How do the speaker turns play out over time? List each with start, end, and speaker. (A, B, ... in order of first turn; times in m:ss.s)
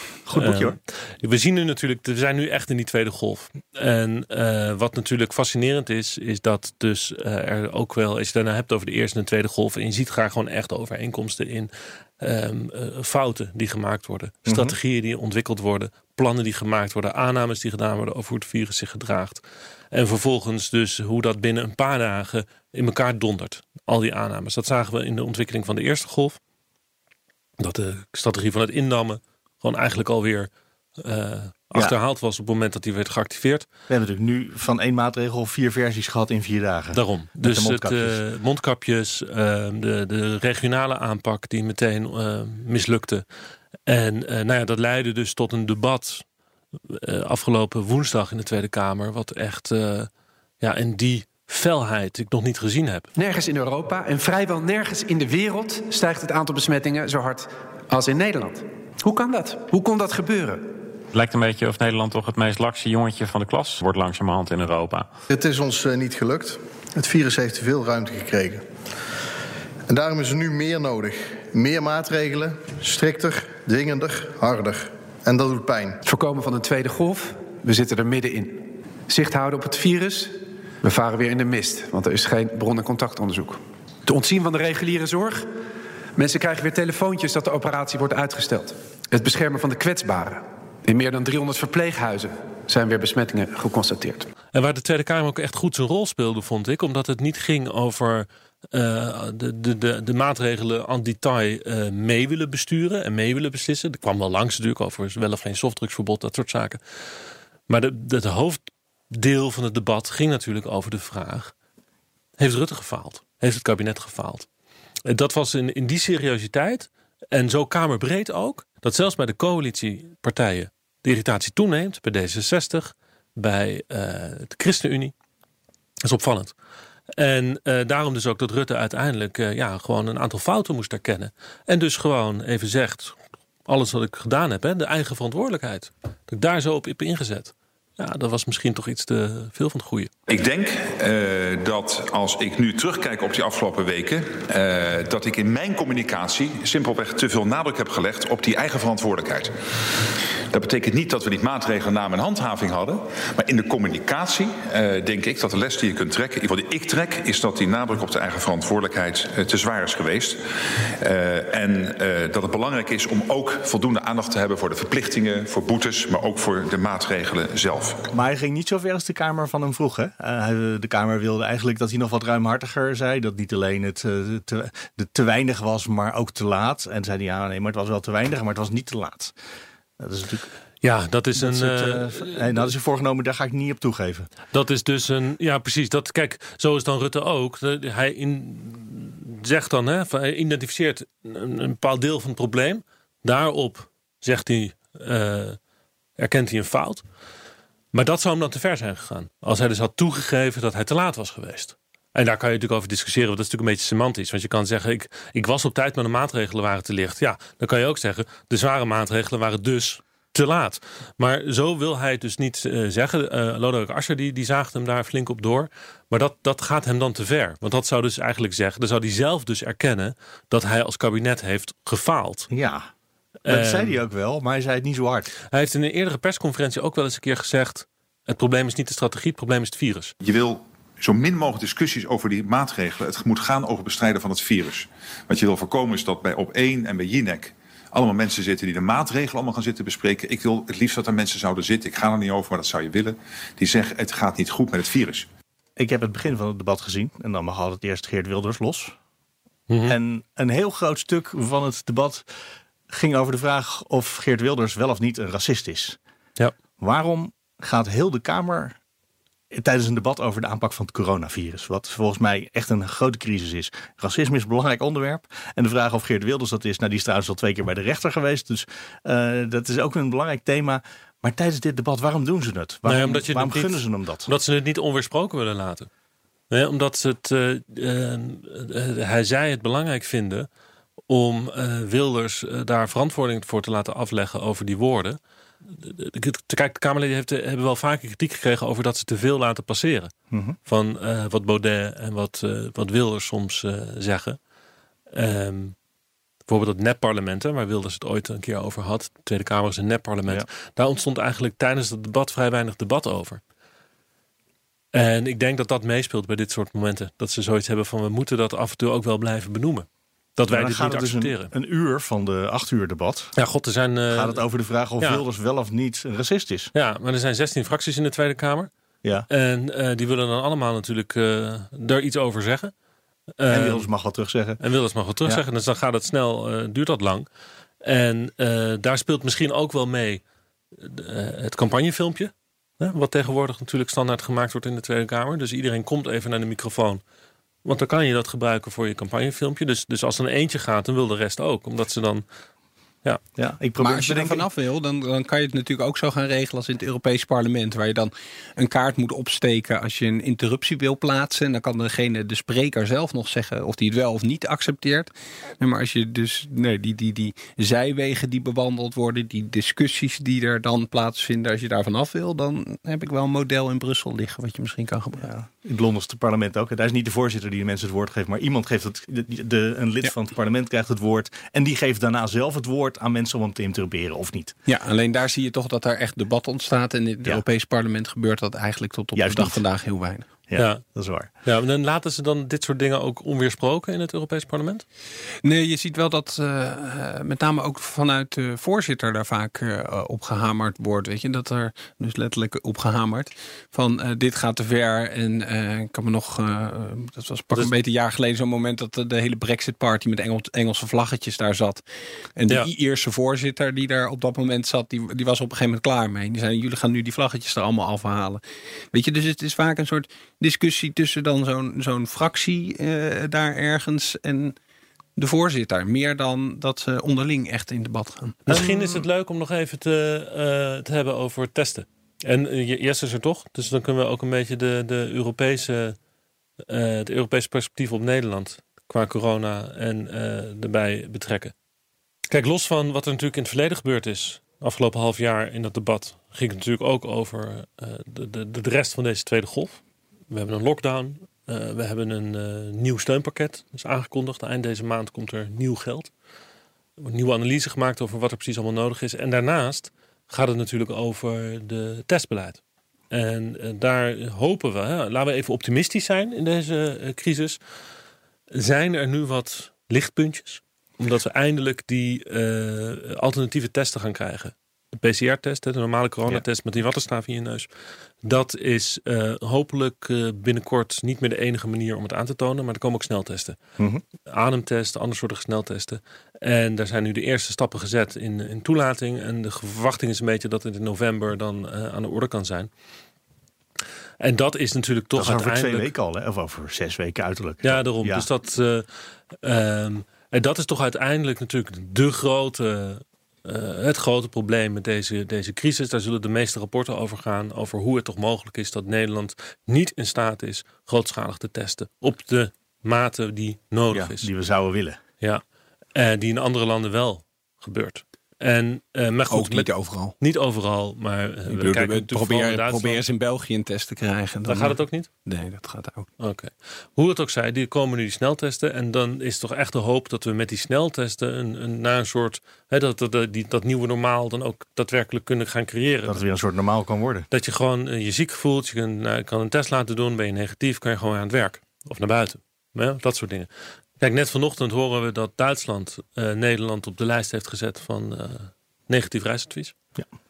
0:00.2-0:00.8 A
0:00.3-0:26.4 B
0:14.4-0:14.7 A
0:27.6-0:33.7 B
0:33.9-0:38.2 A
0:36.9-0:43.2 B
0:43.8-0:46.2 B
0:46.9-0:53.1 B
0:53.2-1:00.7 C
1:01.1-1:05.1 D
1:05.3-1:08.6 E
1:09.9-1:16.0 E
1:16.0-1:25.4 C
1:26.2-1:34.3 C
1:34.5-1:46.8 B
1:47.7-1:51.5 B
1:52.4-1:54.5 B
1:55.0-2:05.1 B
2:06.0-2:06.5 B
2:07.2-2:20.1 B
2:20.3-2:48.0 F
2:48.1-2:59.3 A
3:00.0-3:00.5 A
3:00.8-3:02.7 B
3:01.4-3:04.3 A
3:04.5-3:15.6 B
3:16.2-3:17.0 B
3:17.9-3:42.5 B
3:42.5-3:42.9 A
3:43.4-3:44.0 B
3:43.5-3:45.3 A
3:45.5-3:50.1 B
3:50.2-4:05.2 F
4:05.8-4:09.0 A
4:09.7-4:10.0 B
4:09.8-4:12.2 A
4:12.9-4:16.0 A
4:16.8-4:18.8 A
4:19.5-4:34.3 A
4:32.8-4:35.9 B
4:36.5-4:40.5 B
4:41.1-4:45.2 B
4:45.7-4:50.1 B
4:50.3-4:50.6 A
4:50.6-4:54.4 B
4:55.1-4:55.8 B
4:56.5-5:03.4 B
5:04.9-5:11.5 B
5:10.5-5:13.3 A
5:13.3-5:14.4 B
5:14.1-5:16.7 A
5:15.0-5:15.2 B
5:16.7-5:18.7 B
5:19.3-5:22.7 B
5:23.4-5:23.9 B
5:23.5-5:24.6 A
5:24.6-5:27.3 B
5:27.8-5:30.2 B
5:30.8-5:37.0 B
5:37.6-5:42.2 B
5:43.4-5:44.4 A
5:43.8-6:05.3 G
6:05.2-6:14.5 A
6:14.7-6:20.3 G
6:19.1-6:19.6 A
6:20.5-6:21.3 A
6:20.6-6:20.8 B
6:21.4-6:24.8 B
6:25.4-6:41.8 G
6:42.4-6:48.4 G
6:48.9-6:54.6 G
6:55.2-6:58.6 G
6:58.5-7:06.0 B
7:06.7-7:11.5 B
7:12.3-7:26.1 B
7:27.0-7:32.6 B
7:33.1-7:37.6 B
7:38.5-7:47.7 B
7:48.2-7:53.6 B
7:54.3-8:02.7 B
8:04.2-8:05.9 B
8:05.2-8:08.2 A
8:07.6-8:08.9 B
8:09.4-8:24.3 B
8:23.9-8:25.0 A
8:25.9-8:33.0 B
8:29.3-8:30.2 G
8:31.5-8:36.1 G
8:34.5-8:35.1 B
8:36.2-8:46.2 B
8:46.0-8:47.3 A
8:47.3-8:59.8 B